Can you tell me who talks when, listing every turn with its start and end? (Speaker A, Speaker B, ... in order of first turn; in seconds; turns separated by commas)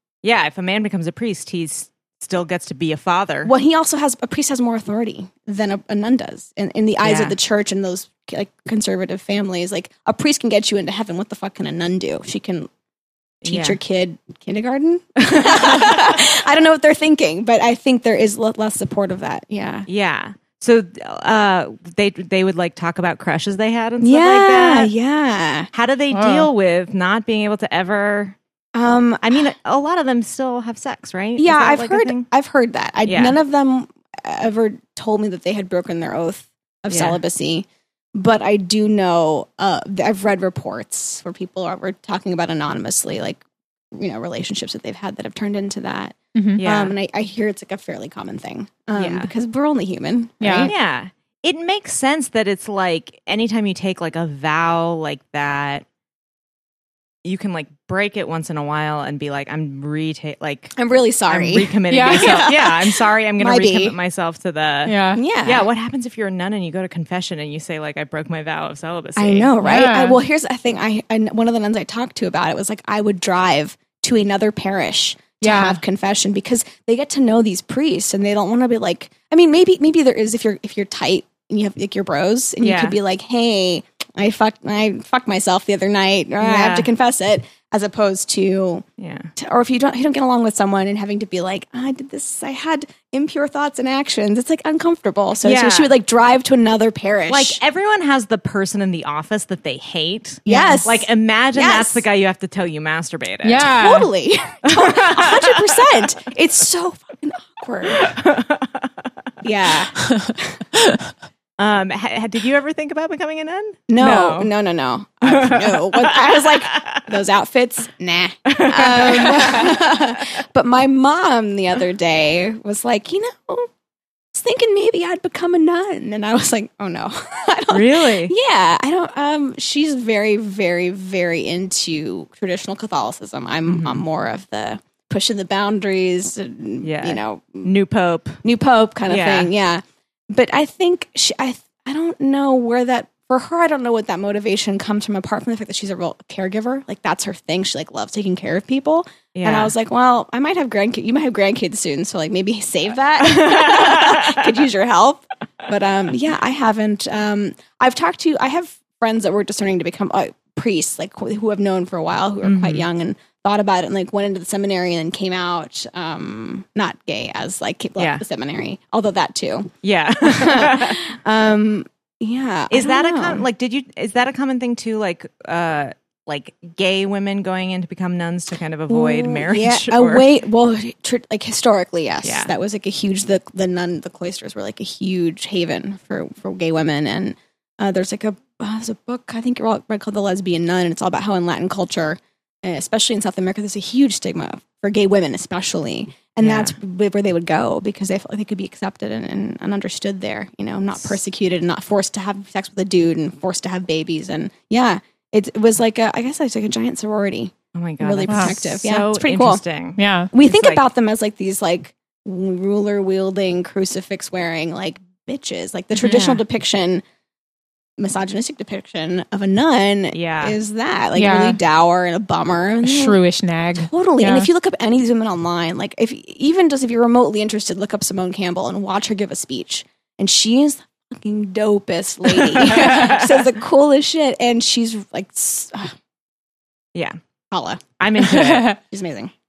Speaker A: 0.2-3.5, Speaker B: 3.5-12.7, Speaker A: 7.0-7.4, Speaker A: 13.4-13.8, Speaker B: 13.4-19.9, Speaker A: 15.4-16.1, Speaker A: 19.9-24.9, Speaker B: 24.0-25.7, Speaker A: 25.7-28.4, Speaker C: 26.1-26.5, Speaker B: 28.8-29.5, Speaker A: 29.2-32.3, Speaker B: 31.4-43.4, Speaker A: 33.1-33.4, Speaker A: 36.9-37.2, Speaker B: 43.9-50.8, Speaker C: 46.4-46.6, Speaker A: 46.6-47.0, Speaker A: 49.0-49.3, Speaker C: 50.4-50.7, Speaker A: 50.6-55.9, Speaker A: 57.2-60.8, Speaker B: 60.8-64.0, Speaker A: 61.3-69.5, Speaker C: 61.9-62.5, Speaker C: 64.9-65.2, Speaker B: 65.2-65.7, Speaker B: 69.2-88.8, Speaker C: 69.6-70.2, Speaker C: 75.4-75.8, Speaker A: 82.6-83.0, Speaker A: 86.4-86.9, Speaker A: 89.0-89.3, Speaker B: 89.4-97.6, Speaker A: 95.4-95.9, Speaker A: 97.3-103.7, Speaker C: 100.5-100.8, Speaker B: 100.5-102.0, Speaker C: 103.5-104.1, Speaker B: 103.7-108.2, Speaker A: 104.7-105.6, Speaker A: 107.9-108.9, Speaker B: 109.4-110.6, Speaker C: 110.0-110.3, Speaker A: 111.6-114.5, Speaker B: 113.9-123.7, Speaker A: 115.2-117.0, Speaker A: 118.5-120.2, Speaker B: 124.3-137.7, Speaker A: 127.7-128.3, Speaker A: 133.7-134.0, Speaker A: 136.8-138.4, Speaker B: 138.4-169.7, Speaker A: 139.1-139.5, Speaker A: 149.3-149.7, Speaker A: 153.2-154.5, Speaker A: 162.4-162.9, Speaker A: 168.0-168.2, Speaker A: 169.8-171.0, Speaker B: 170.2-173.4, Speaker A: 172.7-180.3, Speaker B: 178.9-209.6, Speaker A: 182.2-182.5, Speaker A: 196.4-196.8, Speaker A: 207.8-210.8, Speaker C: 208.3-208.5, Speaker C: 210.0-210.3, Speaker B: 210.3-217.0, Speaker B: 218.0-223.2, Speaker A: 220.1-220.6, Speaker C: 221.2-221.6, Speaker C: 222.8-224.5, Speaker B: 223.8-235.9, Speaker A: 232.4-233.4, Speaker B: 237.5-237.9, Speaker A: 238.0-238.8, Speaker B: 238.6-239.3